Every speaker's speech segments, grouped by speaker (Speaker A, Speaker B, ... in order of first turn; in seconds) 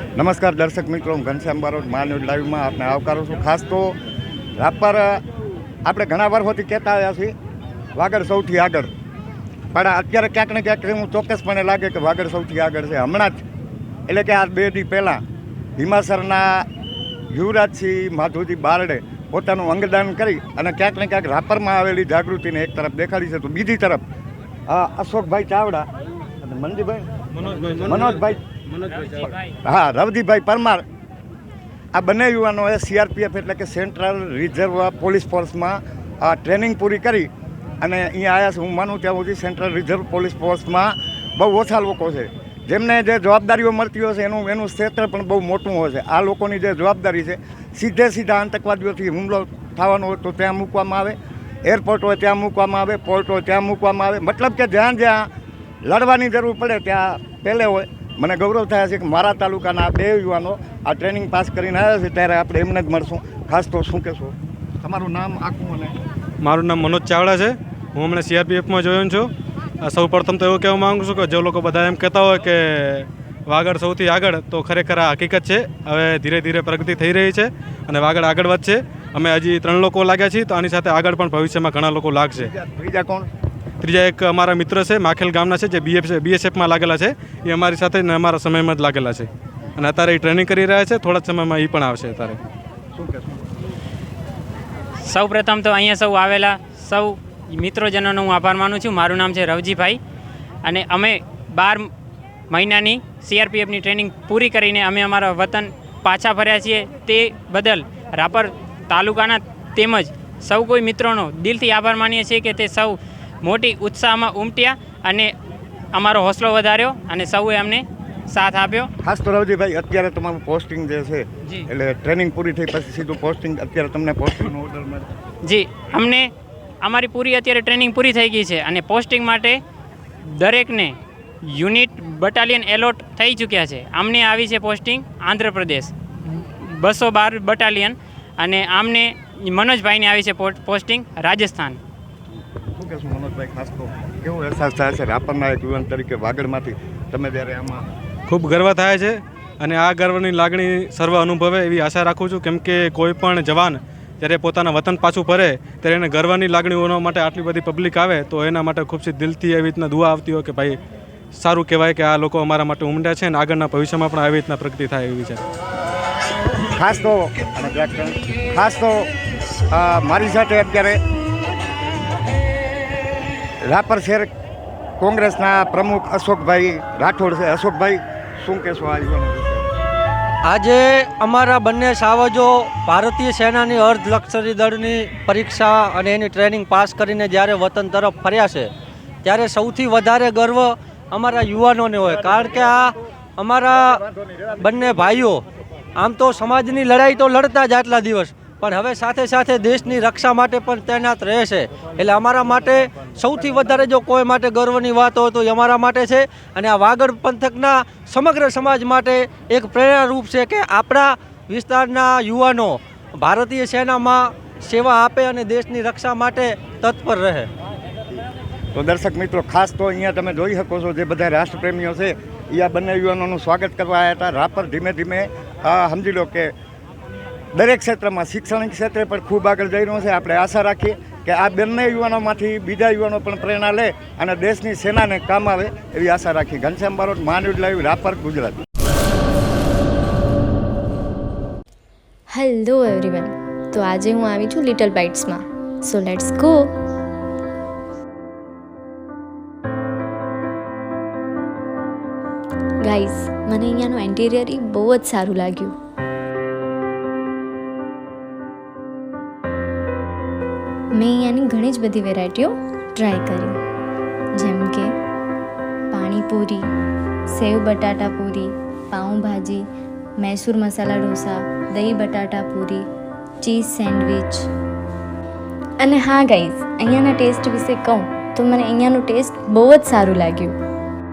Speaker A: 0.2-4.0, 4.6-5.2, 5.8-7.3, 8.0-8.9, 9.7-13.4, 14.1-15.2, 15.8-16.7, 17.3-24.0, 24.7-25.9, 26.4-27.1, 27.7-28.4, 28.9-30.8, 31.9-37.3, 37.8-55.3, 55.9-65.9, 82.3-83.3, 92.9-93.5, 119.0-125.1, 142.8-147.8, 166.8-169.1, 169.7-171.0, 173.6-174.3, 175.0-179.7, 218.7-226.5, 227.5-238.6
Speaker B: 66.4-69.3, 69.8-82.5, 83.8-92.4, 148.3-160.8, 161.3-165.4
Speaker C: 95.0-100.0, 100.6-101.9, 102.5-115.3, 115.9-118.9, 125.5-126.3, 126.8-129.6, 130.3-141.8
Speaker D: 180.4-188.7, 189.2-194.0, 194.6-195.4, 196.0-217.5
Speaker E: 242.3-246.7, 252.8-255.7, 261.0-263.6, 264.4-264.9, 265.9-266.6, 267.3-269.6, 270.2-272.9, 273.4-274.5, 275.8-280.6